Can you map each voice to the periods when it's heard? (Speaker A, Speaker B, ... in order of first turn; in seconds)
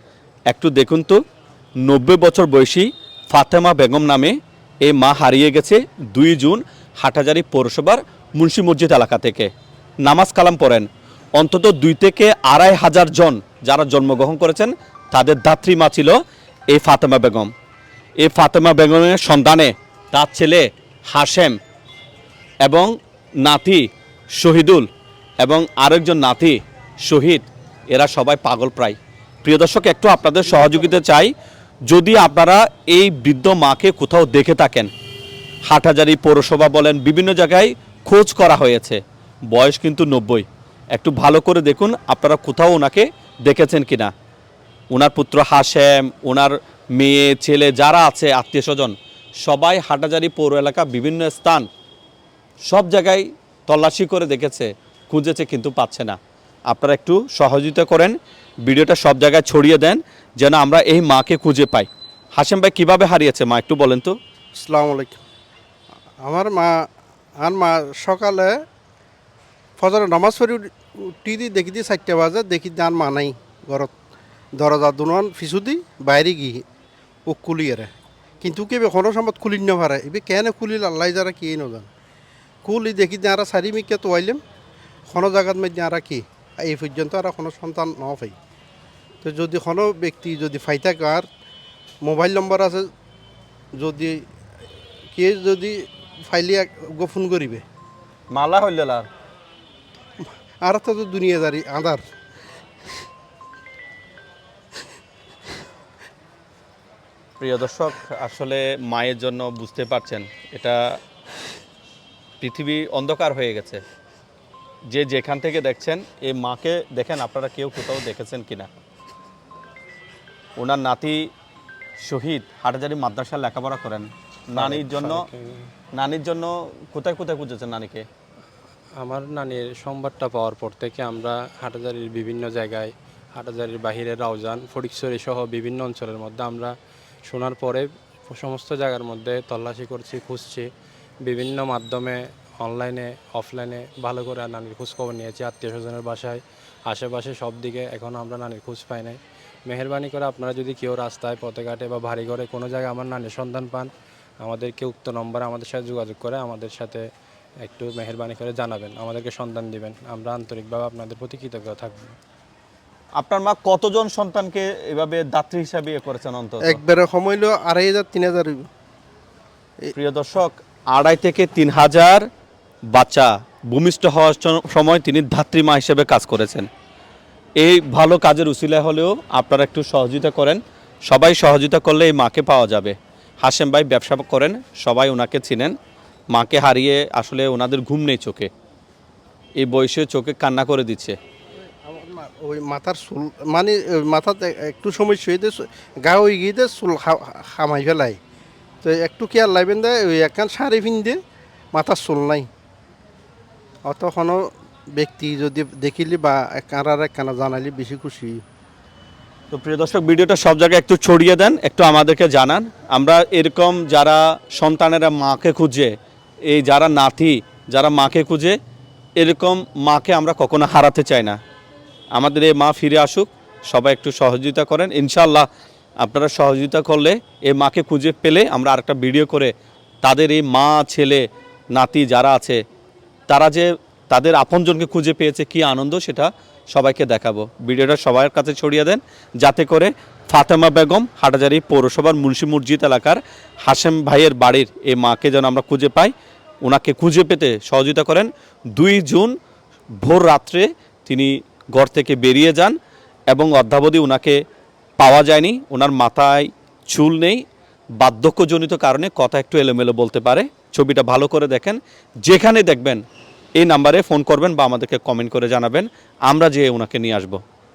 Speaker A: 0.5-1.2, 1.8-9.5, 10.0-16.2, 16.7-17.5, 18.2-21.6, 22.6-24.9, 25.4-31.3, 31.9-34.9, 35.6-39.0, 39.5-44.1, 44.9-51.7, 52.7-56.2, 56.7-64.2, 98.3-99.0, 107.4-111.0, 112.4-113.8, 114.9-118.7, 120.6-121.2, 122.0-125.3, 125.9-128.0, 163.2-166.8, 169.9-172.2, 172.9-176.7, 177.6-185.8, 186.3-188.5, 189.6-191.2, 209.5-215.9, 216.5-218.6, 219.2-221.4, 222.1-225.5, 226.0-229.5, 230.0-232.6, 233.3-249.3, 250.0-252.8, 253.3-254.4, 255.0-257.4, 258.0-263.0, 263.6-267.4
Speaker B: 64.6-65.2, 66.2-66.8, 67.4-68.6, 69.8-73.9, 74.6-76.6, 77.3-77.9, 78.4-81.9, 82.6-84.4, 85.1-88.3, 89.2-91.3, 92.0-92.9, 93.7-94.2, 95.1-97.6, 100.6-102.0, 166.6-168.6, 191.8-198.2, 198.8-201.2, 201.7-202.5, 203.9-208.4
Speaker C: 124.5-125.7, 129.0-136.7, 137.2-140.7, 141.2-153.9, 154.4-157.0, 157.6-162.2